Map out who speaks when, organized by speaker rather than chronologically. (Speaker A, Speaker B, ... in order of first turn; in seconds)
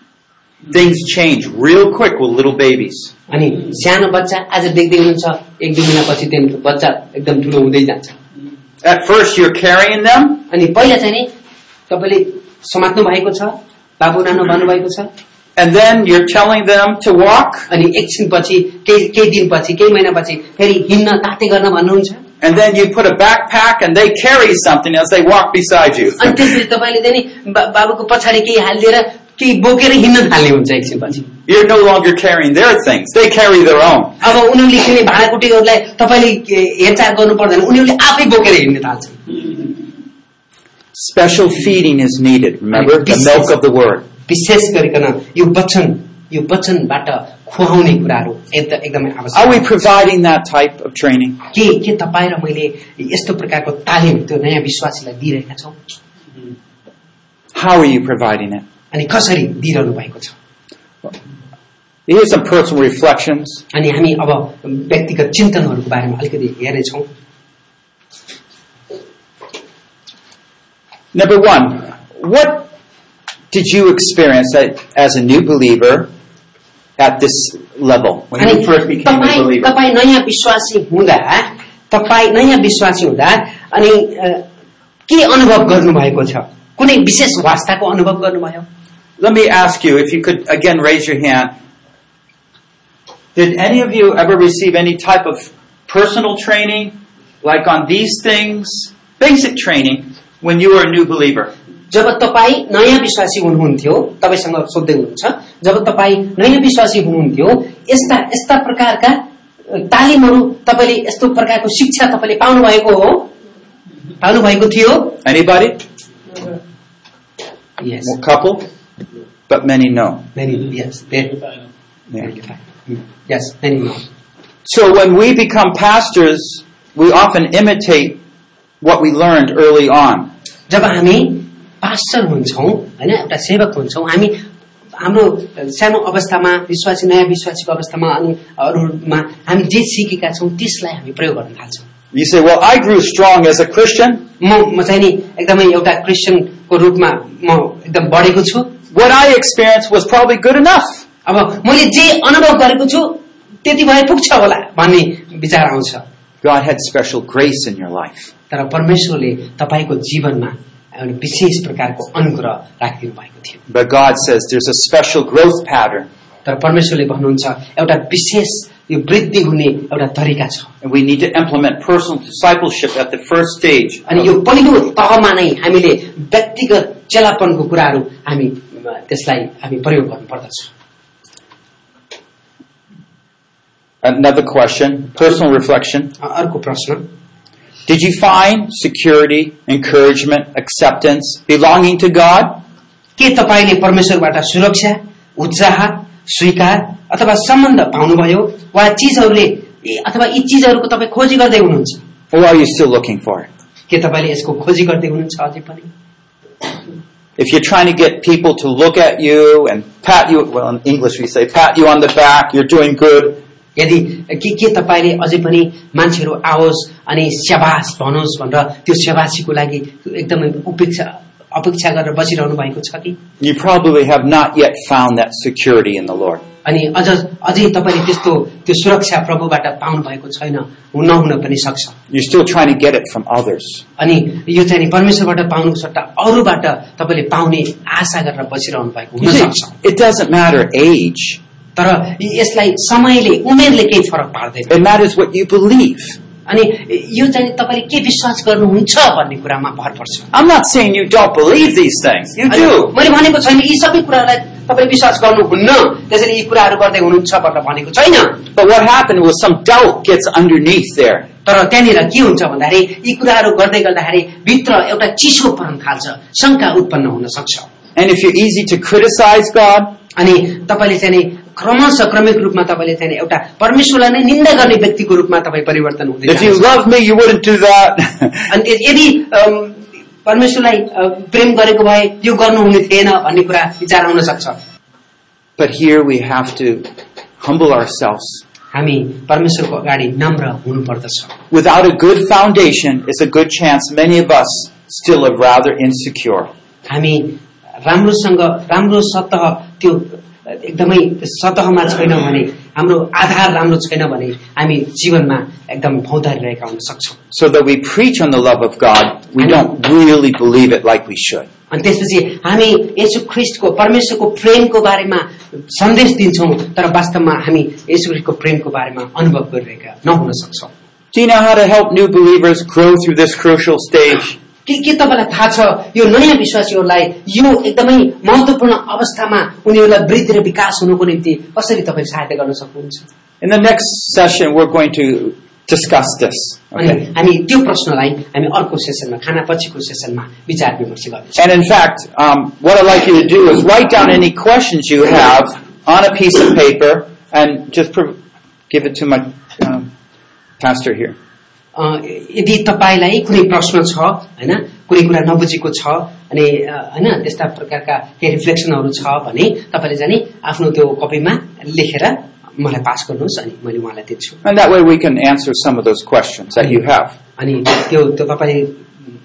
Speaker A: 0.7-3.1, 8.8-10.4, 15.6-17.7, 22.4-26.5, 31.5-34.2, 40.9-44.1, 49.3-51.4, 57.5-58.6, 62.1-63.6, 71.1-72.7, 73.5-76.1, 77.0-79.7, 89.2-91.5, 93.3-101.5, 115.2-115.8, 118.0-118.7, 119.5-120.3, 124.7-128.2, 128.8-130.3, 142.1-144.2, 148.9-151.1, 156.4-158.3, 163.7-166.1, 170.8-174.1, 184.0-186.1, 187.9-192.6, 202.3-203.5, 207.4-213.4, 223.4-226.4, 232.1-233.8, 239.2-241.4, 244.7-246.2, 250.3-252.9, 258.5-261.3, 268.0-269.9, 276.3-278.5, 285.6-288.4, 291.5-296.5, 307.3-311.5, 321.1-324.4, 333.4-337.0, 341.4-348.2, 348.7-349.9, 350.6-351.2, 364.4-367.2
Speaker B: 3.3-8.2, 10.5-11.3, 11.9-15.1, 17.7-22.2, 26.2-31.2, 34.2-39.4, 42.7-43.5, 44.3-49.7, 51.5-55.8, 58.9-60.3, 63.7-67.1, 78.4-84.4, 85.1-88.7, 101.9-113.3, 114.2-115.2, 117.8-118.1, 120.4-121.4, 122.2-124.0, 130.7-134.4, 135.0-141.9, 144.4-148.8, 151.3-156.0, 158.5-163.6, 166.4-170.7, 174.1-180.7, 186.2-187.1, 193.2-202.0, 203.9-205.9, 213.8-223.2, 226.7-231.9, 234.0-239.8, 241.8-244.8, 246.5-250.3, 252.5-258.4, 261.5-267.7, 270.2-276.8, 278.5-284.6, 288.7-291.4, 296.9-307.2, 311.7-320.7, 324.7-333.1, 336.8-341.4, 351.8-364.4, 367.4-368.8